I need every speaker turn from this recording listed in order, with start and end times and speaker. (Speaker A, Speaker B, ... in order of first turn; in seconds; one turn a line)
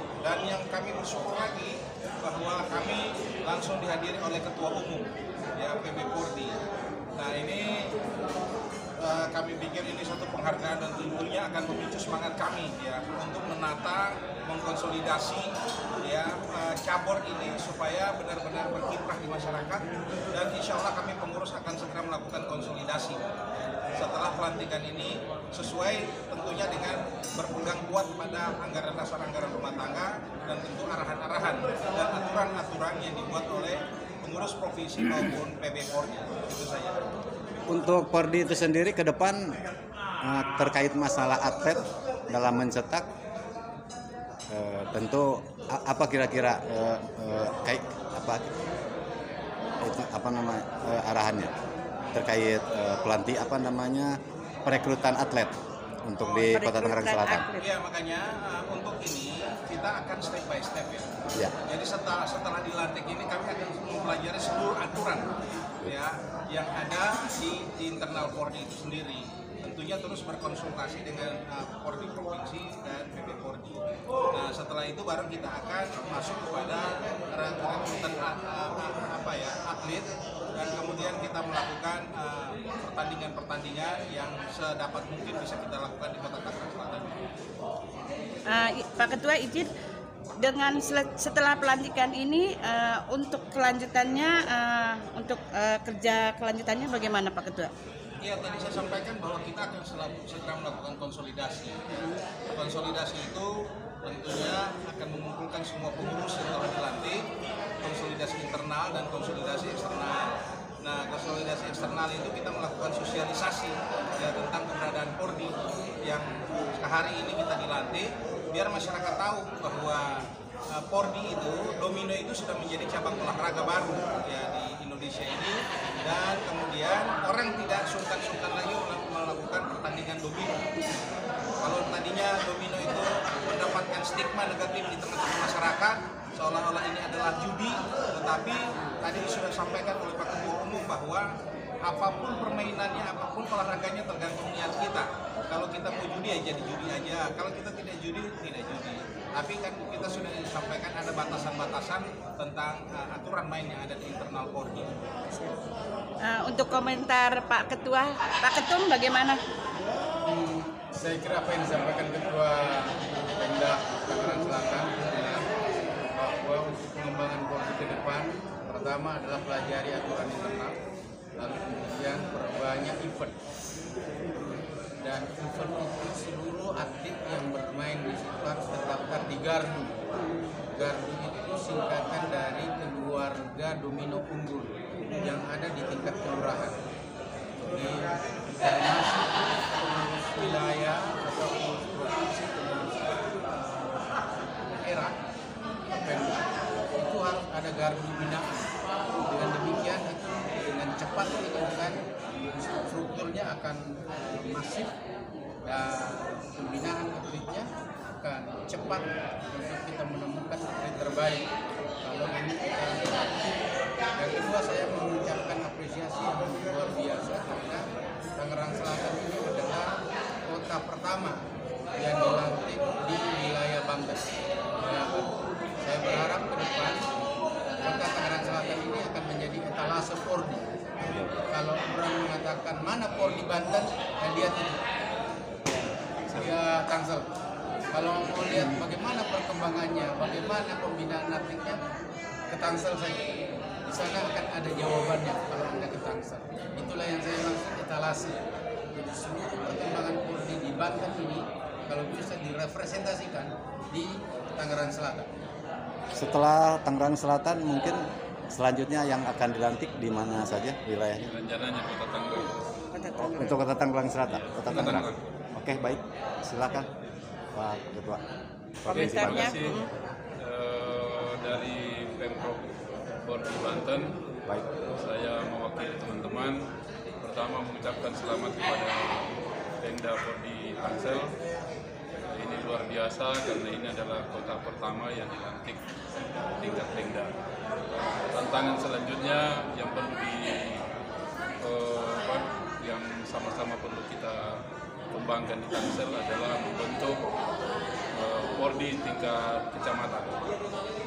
Speaker A: 0.2-5.1
Speaker A: 5.6-6.6
Speaker A: 7.2-7.9
Speaker A: 9.0-15.5
Speaker A: 16.0-23.2
Speaker A: 24.0-37.0
Speaker B: 37.7-39.5
Speaker B: 40.2-41.8
Speaker B: 42.3-43.1
Speaker B: 44.5-48.5
Speaker B: 49.8-51.5
Speaker B: 52.1-54.1
Speaker B: 54.7-55.5
Speaker B: 56.1-57.5
Speaker C: 56.3-57.7
Speaker A: 57.6-61.1
Speaker A: 61.6-65.2
Speaker A: 65.8-73.8
Speaker A: 74.3-87.2
Speaker C: 88.5-89.7
Speaker C: 90.4-97.7
Speaker A: 98.2-101.8
Speaker A: 102.5-103.5
Speaker A: 104.1-107.2
Speaker A: 107.8-110.3
Speaker A: 110.8-115.5
Speaker A: 116.0-120.2
Speaker A: 120.7-130.6
Speaker A: 131.6-141.3
Speaker A: 141.8-154.9
Speaker C: 155.3-155.6
Speaker C: 156.2-159.4
Speaker D: 160.2-165.4
Speaker D: 166.2-170.7
Speaker D: 171.4-173.3
Speaker D: 175.0-180.0
Speaker D: 180.7-186.8
Speaker D: 187.6-194.0
Speaker D: 194.7-195.2
Speaker D: 195.9-198.6
Speaker D: 199.3-202.0
Speaker D: 202.5-204.9
Speaker D: 205.7-207.7
Speaker D: 208.2-211.4
Speaker D: 212.0-213.5
Speaker D: 214.2-217.8
Speaker D: 218.4-219.9
Speaker D: 220.5-221.4
Speaker D: 222.0-225.3
Speaker D: 225.8-227.0
Speaker D: 227.8-230.6
Speaker B: 231.0-231.3
Speaker D: 231.5-234.8
Speaker B: 235.7-236.5
Speaker D: 236.4-237.3
Speaker D: 237.9-241.8
Speaker B: 238.5-238.8
Speaker D: 242.5-243.2
Speaker D: 243.9-248.4
Speaker D: 248.9-255.3
Speaker B: 256.2-258.0
Speaker B: 258.5-261.2
Speaker E: 261.3-262.5
Speaker C: 262.9-263.7
Speaker B: 263.2-266.9
Speaker E: 264.3-265.2
Speaker B: 267.6-268.2
Speaker B: 268.8-269.7
Speaker C: 268.9-269.9
Speaker E: 268.9-269.8
Speaker E: 270.4-272.7
Speaker E: 273.2-274.1
Speaker E: 275.0-276.6
Speaker E: 277.2-279.2
Speaker E: 279.8-281.3
Speaker E: 282.3-285.8
Speaker E: 286.6-287.3
Speaker E: 288.3-290.8
Speaker E: 291.6-294.6
Speaker E: 295.1-297.2
Speaker E: 298.2-300.4